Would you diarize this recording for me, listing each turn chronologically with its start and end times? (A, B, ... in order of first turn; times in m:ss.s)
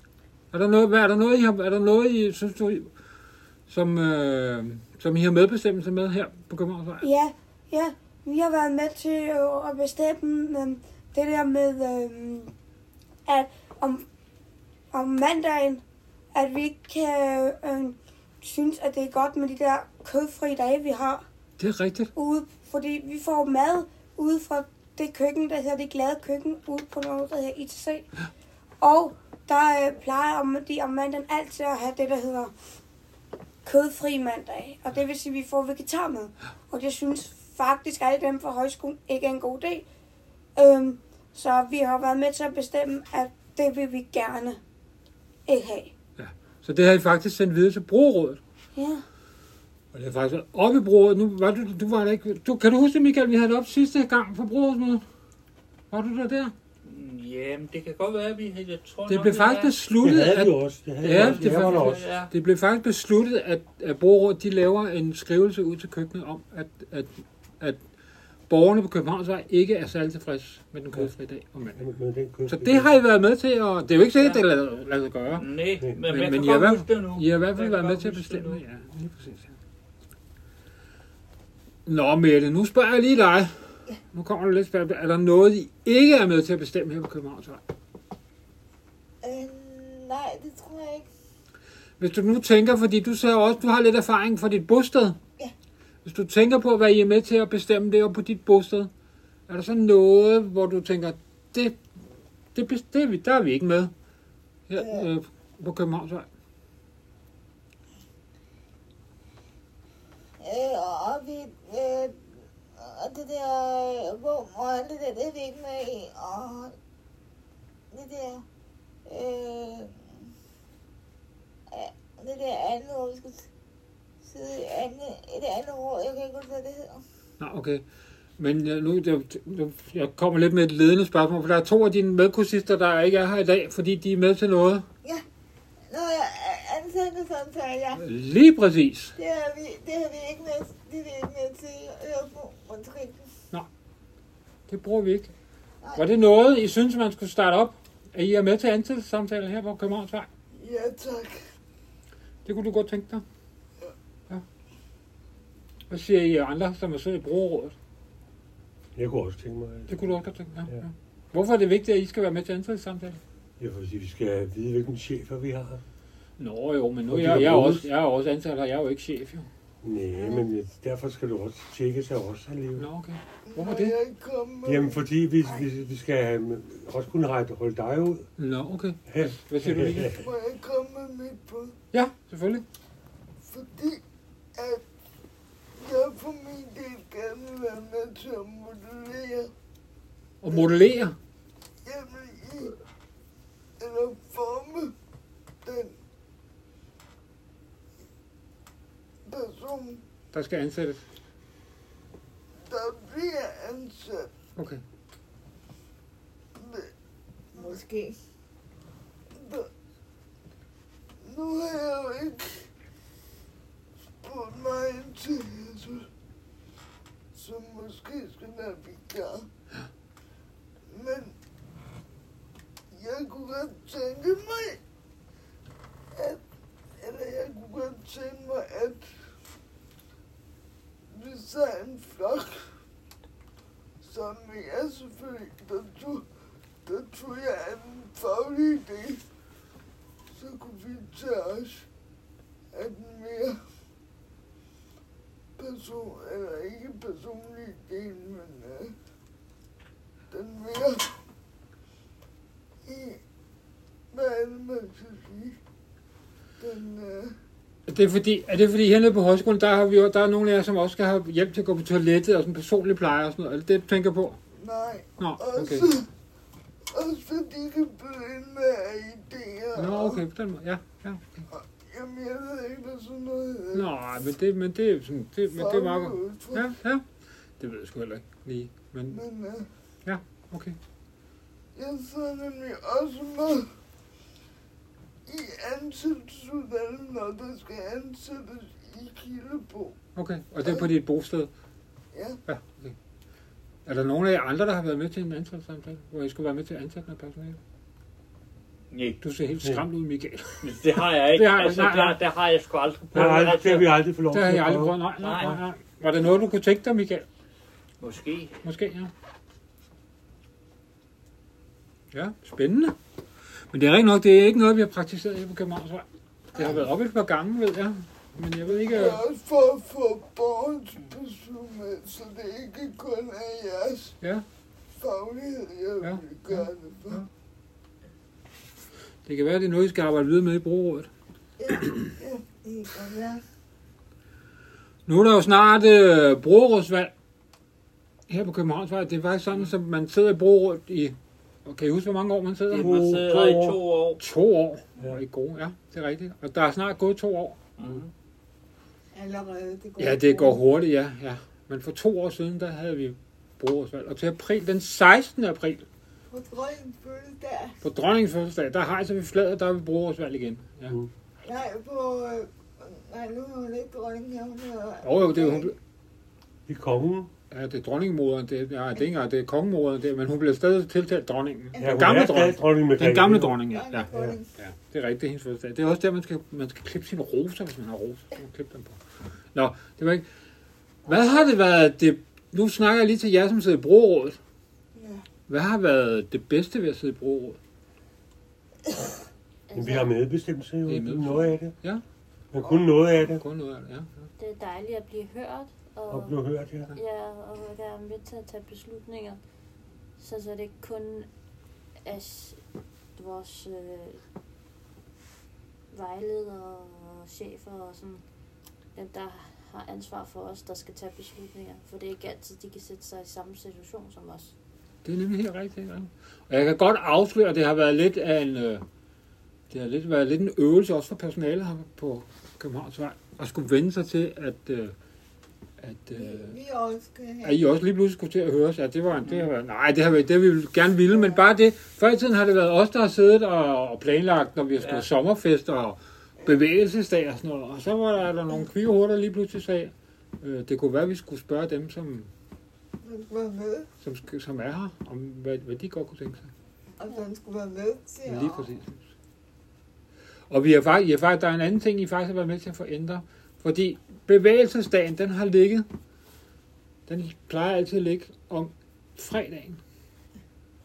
0:00.5-0:02.9 A
0:03.7-0:07.0 A
0:07.0-0:12.5 B
0:13.2-0:14.1 B
0:14.9-0:15.8 B
0:16.3-0:21.2 B
0:21.6-0:22.1 A
0:22.1-0:28.1 B
0:28.8-0:32.5 B
0:33.6-0:39.8 B
0:40.6-0:44.6 B
0:45.4-0:45.9 B
0:46.2-0:48.4 A
0:48.7-0:49.0 B
0:49.9-0:55.0 A
0:55.9-0:56.5 A
0:56.8-0:59.7 C
0:59.1-1:07.8 A
1:00.0-1:02.0 D
1:01.0-1:02.3 C
1:08.5-1:11.8 A
1:11.8-1:12.9 D
1:12.5-1:15.4 A
1:14.2-1:14.4 C
1:15.3-1:18.6 C
1:16.0-1:19.6 A
1:21.8-1:27.6 A
1:29.2-1:31.1 E
1:32.0-1:35.2 A
1:36.0-1:38.9 A
1:39.5-1:41.8 A
1:42.5-1:43.9 A
1:44.7-1:46.3 A
1:44.7-1:45.0 E
1:50.4-1:52.2 E
1:52.8-1:56.7 E
1:57.9-1:58.4 E
1:59.0-2:00.3 E
2:01.7-2:03.5 E
2:04.2-2:07.0 E
2:07.4-2:07.8 A
2:08.4-2:14.9 A
2:15.9-2:18.0 E
2:18.0-2:19.1 A
2:19.2-2:23.2 E
2:24.7-2:25.3 A
2:25.9-2:30.3 A
2:30.5-2:31.4 F
2:32.4-2:33.2 A
2:35.9-2:37.7 A
2:38.9-2:40.1 D
2:39.9-2:43.2 A
2:43.6-2:45.8 D
2:46.4-2:49.5 A
2:47.1-2:47.9 D
2:49.8-2:52.9 D
2:52.8-2:54.0 A
2:53.5-2:55.6 F
2:54.6-2:58.3 D
2:58.4-3:00.2 A
2:59.1-3:00.2 D
3:00.1-3:01.7 F
3:01.9-3:02.6 A
3:03.5-3:04.0 F
3:04.5-3:04.8 F
3:05.8-3:09.5 F
3:10.4-3:11.2 A
3:11.8-3:12.8 F
3:13.8-3:14.9 F
3:15.6-3:16.0 F
3:19.2-3:20.0 F
3:20.3-3:21.0 A
3:22.6-3:24.3 F
3:24.6-3:24.8 A
3:26.6-3:26.9 F
3:27.5-3:27.8 F
3:27.5-3:28.2 E
3:29.3-3:29.7 F
3:31.2-3:32.6 F
3:34.2-3:36.1 F
3:37.3-3:39.4 F
3:40.9-3:41.3 F
3:42.9-3:44.8 F
3:46.1-3:46.4 F
3:47.0-3:49.1 F
3:51.1-3:52.7 F
3:54.0-3:56.2 F
3:56.8-3:59.2 F
4:00.3-4:01.9 F
4:02.7-4:03.6 F
4:05.6-4:08.9 F
4:10.3-4:11.1 F
4:12.8-4:13.2 F
4:14.1-4:15.6 F
4:16.6-4:17.3 F
4:17.9-4:24.4 A
4:24.6-4:26.1 F
4:25.2-4:25.9 A
4:26.9-4:30.2 F
4:29.7-4:31.5 A
4:31.5-4:33.9 F
4:33.7-4:37.0 A
4:35.5-4:36.7 F
4:37.6-4:39.2 A
4:39.1-4:39.7 F
4:40.0-4:40.8 A
4:41.7-4:43.7 F
4:45.3-4:50.0 F
4:50.2-4:51.5 A
4:50.6-4:50.9 F
4:52.1-4:52.4 F
4:52.4-4:52.9 A
4:53.8-4:57.6 A
4:58.9-4:59.2 C
4:59.2-5:02.2 A
5:00.6-5:03.9 C
5:03.1-5:05.5 D
5:04.3-5:07.2 A
5:05.2-5:05.6 C
5:08.0-5:08.6 C
5:08.6-5:09.1 A
5:12.1-5:13.0 A
5:13.7-5:19.2 A
5:16.6-5:16.8 E
5:18.8-5:24.1 F
5:25.0-5:27.2 F
5:26.0-5:27.3 A
5:29.2-5:31.1 A
5:31.6-5:31.9 E
5:31.8-5:32.1 A
5:32.2-5:32.4 F
5:32.6-5:33.4 E
5:35.1-5:37.1 A
5:38.3-5:43.2 A
5:42.7-5:44.2 C
5:42.8-5:43.8 D
5:44.2-5:47.6 A
5:47.8-5:48.1 C
5:49.1-5:50.6 E
5:50.0-5:55.8 A
5:56.3-5:57.8 E
5:57.8-6:01.0 A
6:01.4-6:05.7 E
6:05.0-6:05.8 A
6:06.7-6:07.3 D
6:07.5-6:19.0 A
6:11.7-6:12.1 E
6:11.8-6:13.6 D
6:13.7-6:14.5 E
6:14.1-6:14.4 D
6:19.5-6:20.2 A
6:21.0-6:24.4 A
6:24.9-6:25.2 F
6:25.5-6:27.6 A
6:29.7-6:30.2 G
6:29.7-6:31.7 D
6:30.9-6:32.0 A
6:32.5-6:33.4 D
6:33.3-6:34.3 A
6:34.4-6:36.4 G
6:36.1-6:36.9 D
6:36.9-6:39.4 G
6:40.2-6:41.3 G
6:42.0-6:42.6 G
6:43.2-6:44.2 G
6:45.9-6:48.2 G
6:48.9-6:54.5 G
6:55.0-6:58.8 A
6:59.7-7:04.9 A
7:05.8-7:06.6 A
7:06.1-7:07.7 E
7:07.4-7:22.3 A
7:14.8-7:15.1 C
7:23.0-7:23.9 E
7:24.0-7:26.5 A
7:27.0-7:28.7 E
7:28.2-7:29.0 A
7:30.5-7:35.9 A
7:37.1-7:39.8 A